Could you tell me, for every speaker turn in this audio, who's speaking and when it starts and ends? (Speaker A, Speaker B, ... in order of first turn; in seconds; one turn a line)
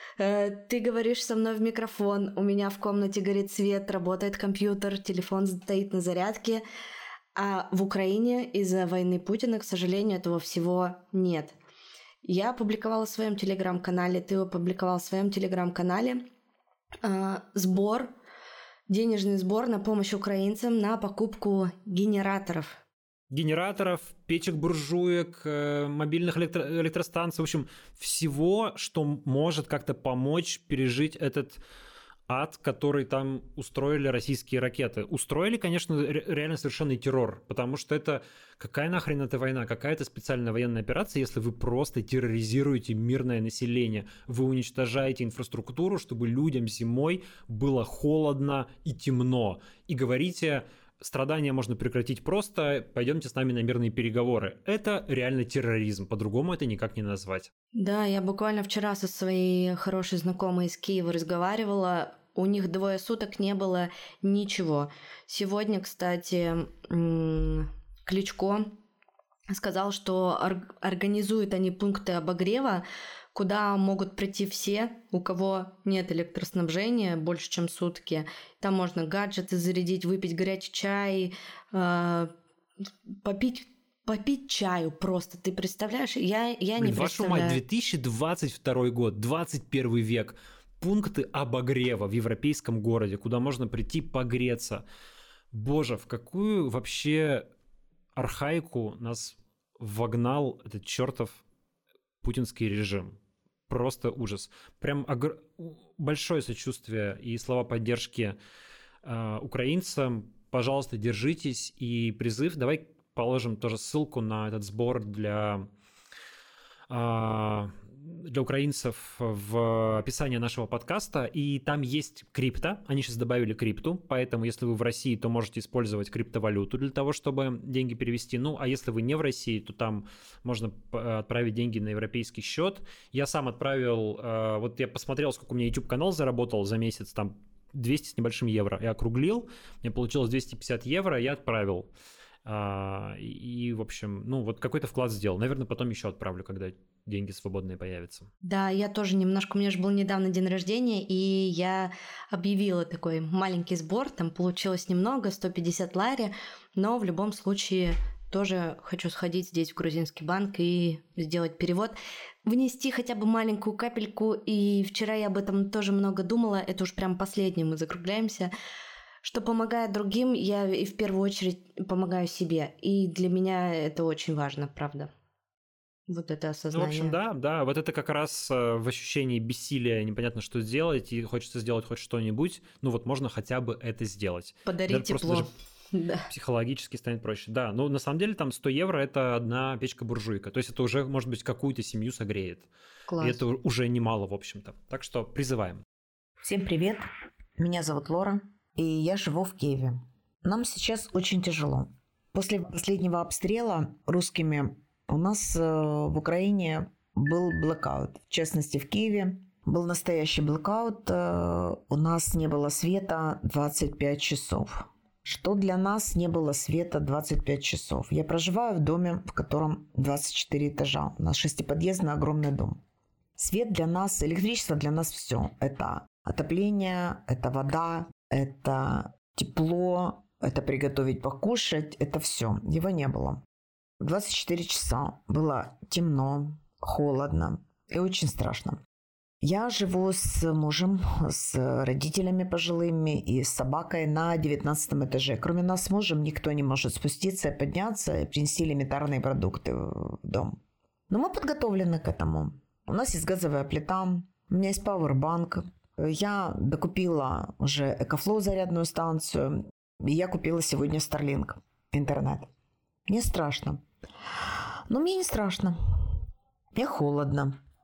Speaker A: 0.2-6.6
Speaker A: 7.3-11.5
Speaker A: 12.2-16.2
Speaker A: 17.0-18.1
Speaker A: 18.9-22.8
Speaker B: 23.3-31.6
Speaker B: 32.3-57.5
Speaker A: 57.8-68.7
Speaker A: 69.5-82.3
Speaker A: 83.2-87.6
Speaker B: 86.8-94.8
Speaker B: 95.5-97.5
Speaker B: 98.2-101.4
Speaker B: 102.2-108.4
Speaker B: 109.0-115.7
Speaker B: 116.9-141.9
Speaker B: 142.4-148.3
Speaker A: 148.4-168.5
Speaker A: 169.2-175.1
Speaker A: 176.1-177.1
Speaker B: 176.7-185.5
Speaker A: 184.7-186.3
Speaker B: 186.3-192.7
Speaker A: 193.1-193.4
Speaker B: 193.2-195.8
Speaker C: 196.4-197.1
Speaker C: 197.6-222.8
Speaker C: 223.4-233.4
Speaker C: 234.0-238.8
Speaker C: 239.4-250.6
Speaker C: 251.1-262.5
Speaker C: 263.1-263.8
Speaker C: 264.9-266.0
Speaker C: 266.7-267.6